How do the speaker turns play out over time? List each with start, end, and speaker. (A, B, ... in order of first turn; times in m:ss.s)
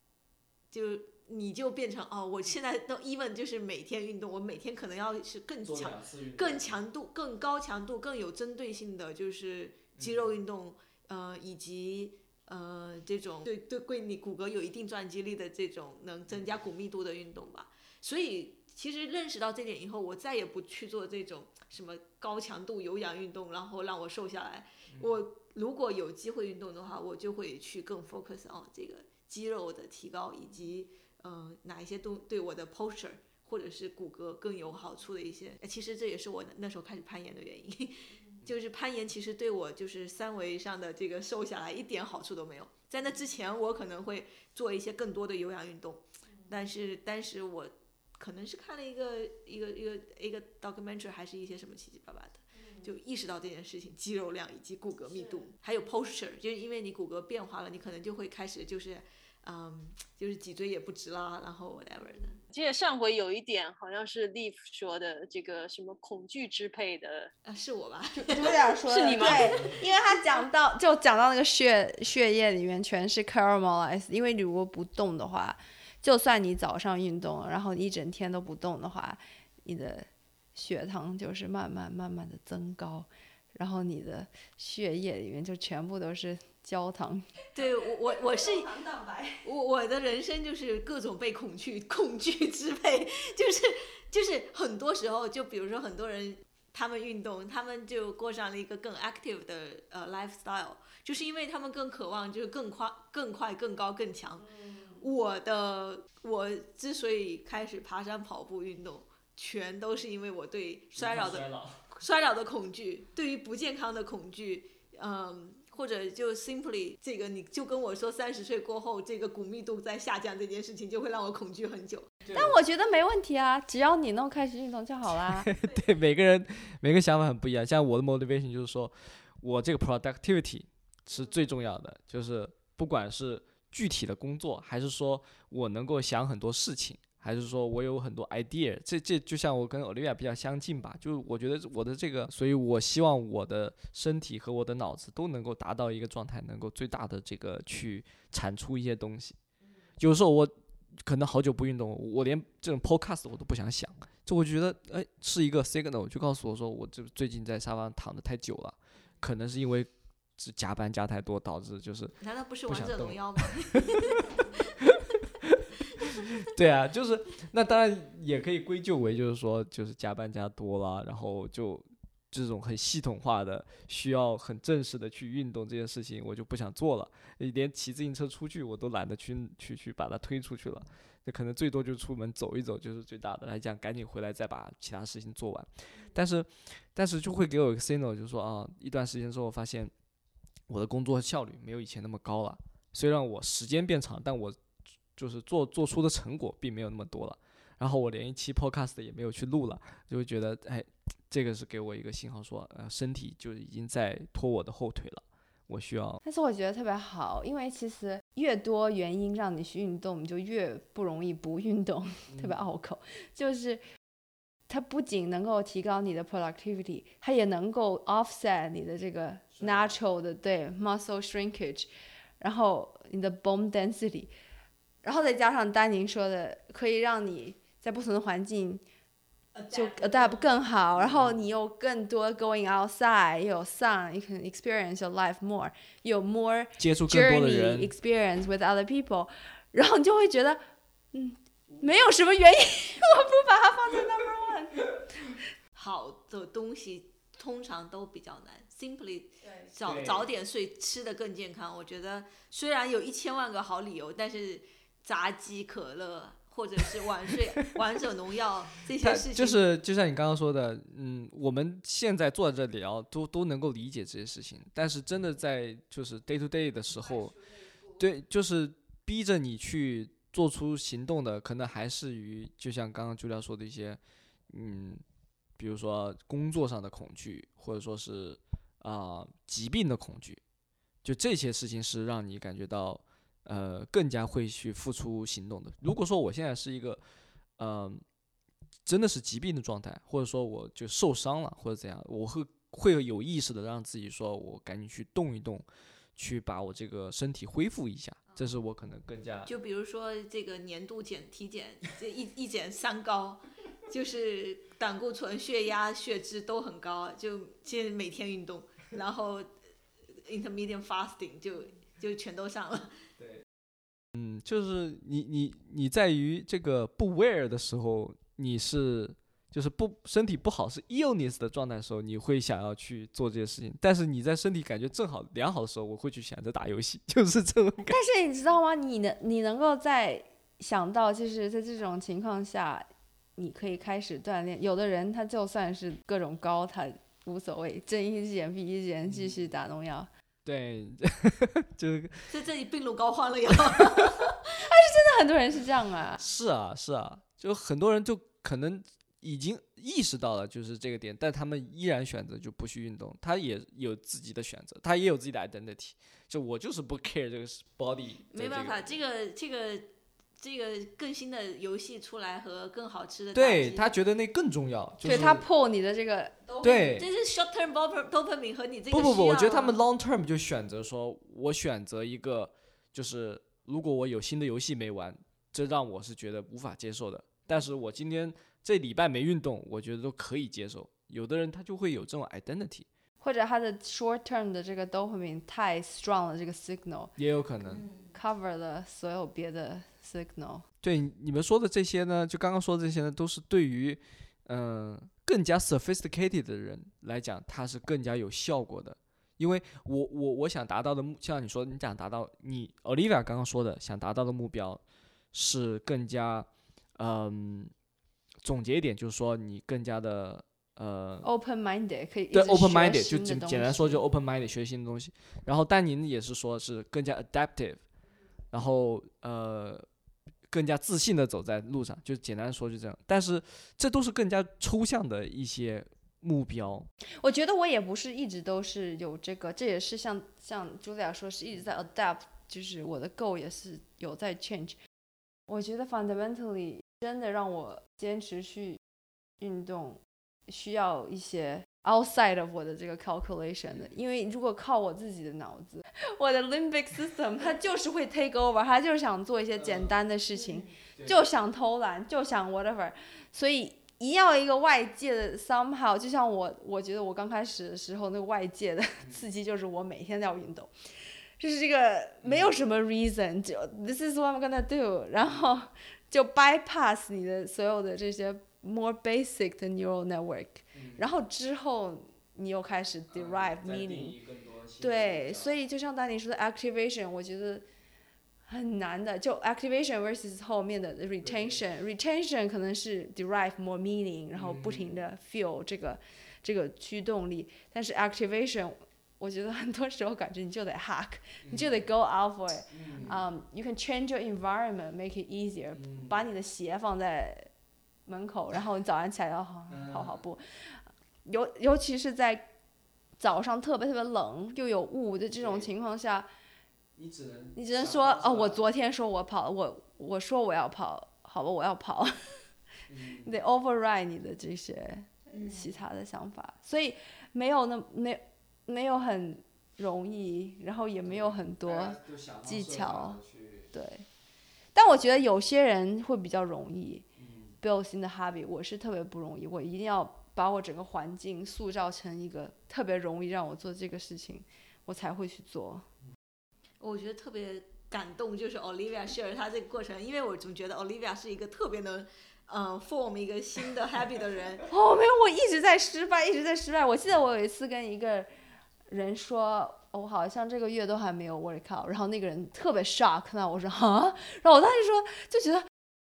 0:00.7-1:02.4 A
0:05.6-0:06.8 B
0:10.0-0:10.4 B
1:02.5-1:07.3 C
1:07.4-1:08.6 A
1:08.2-1:29.4 D
1:08.9-1:09.6 C
1:09.2-1:09.8 A
1:27.6-1:28.7 A
1:29.4-2:02.2 A
1:51.0-1:51.8 B
2:02.3-2:02.6 B
2:02.3-2:05.5 D
2:05.2-2:29.4 B
2:30.0-2:30.5 B
2:31.0-2:43.8 B
2:42.2-2:44.5 A
2:44.8-3:09.9 B
3:10.7-3:14.6 B
3:15.2-3:26.2 B
3:26.2-3:33.8 D
3:32.3-3:32.6 B
3:34.7-3:41.9 D
3:39.6-3:39.9 B
3:42.4-3:44.3 D
3:45.0-3:48.8 D
3:49.5-3:50.5 A
3:49.7-4:00.6 D
3:51.0-3:51.4 B
3:56.8-3:57.9 B
4:01.1-4:04.9 D
4:05.8-4:19.6 A
4:09.4-4:09.7 D
4:09.8-4:10.3 B
4:19.0-4:27.4 B
4:28.0-4:35.0 B
4:35.6-4:40.4 B
4:41.0-4:47.0 B
4:47.6-4:48.0 B
4:48.9-4:55.6 B
4:56.2-4:59.5 B
4:59.5-5:09.5 A
5:10.2-5:13.0 A
5:14.2-5:28.0 B
5:27.9-5:32.9 D
5:33.4-5:40.1 D
5:39.1-5:39.4 B
5:40.4-5:42.3 B
5:42.3-5:44.7 A
5:43.8-5:44.1 B
5:44.6-5:46.2 D
5:46.2-5:58.9 B
5:58.3-6:03.9 A
6:03.3-6:05.4 B
6:05.0-6:06.5 D
6:06.5-6:09.8 A
6:06.6-6:07.1 B
6:08.9-6:22.9 B
6:23.2-6:27.1 D
6:27.2-6:27.9 B
6:27.7-6:28.1 A
6:28.1-6:30.6 D
6:30.8-6:44.8 B
6:45.3-6:47.7 B
6:48.4-6:51.3 B
6:51.2-6:54.0 D
6:52.3-6:57.8 B
6:58.5-6:59.9 B
7:00.5-7:06.9 B
7:07.2-7:14.8 D
7:15.5-7:18.8 D
7:19.4-7:40.7 D
7:29.6-7:29.9 B
7:41.4-7:54.2 D
7:42.2-7:42.6 B
7:50.7-7:51.1 B
7:53.1-7:55.6 B
7:54.8-7:57.6 D
7:58.5-8:17.5 D
8:01.2-8:01.6 B
8:04.4-8:05.0 B
8:11.4-8:11.7 B
8:12.7-8:13.1 B
8:15.8-8:16.2 B
8:18.1-8:22.5 D
8:19.7-8:20.2 B
8:23.2-8:26.3 D
8:25.4-8:25.7 B
8:27.0-8:28.6 B
8:27.6-8:32.4 D
8:32.9-8:33.3 B
8:33.2-8:43.2 D
8:35.3-8:35.8 A
8:41.1-8:43.7 B
8:43.7-8:44.0 D
8:44.8-8:47.0 D
8:47.2-8:47.5 B
8:47.6-8:55.9 D
8:56.8-9:04.6 A
9:04.7-9:08.3 D
9:08.9-9:15.7 D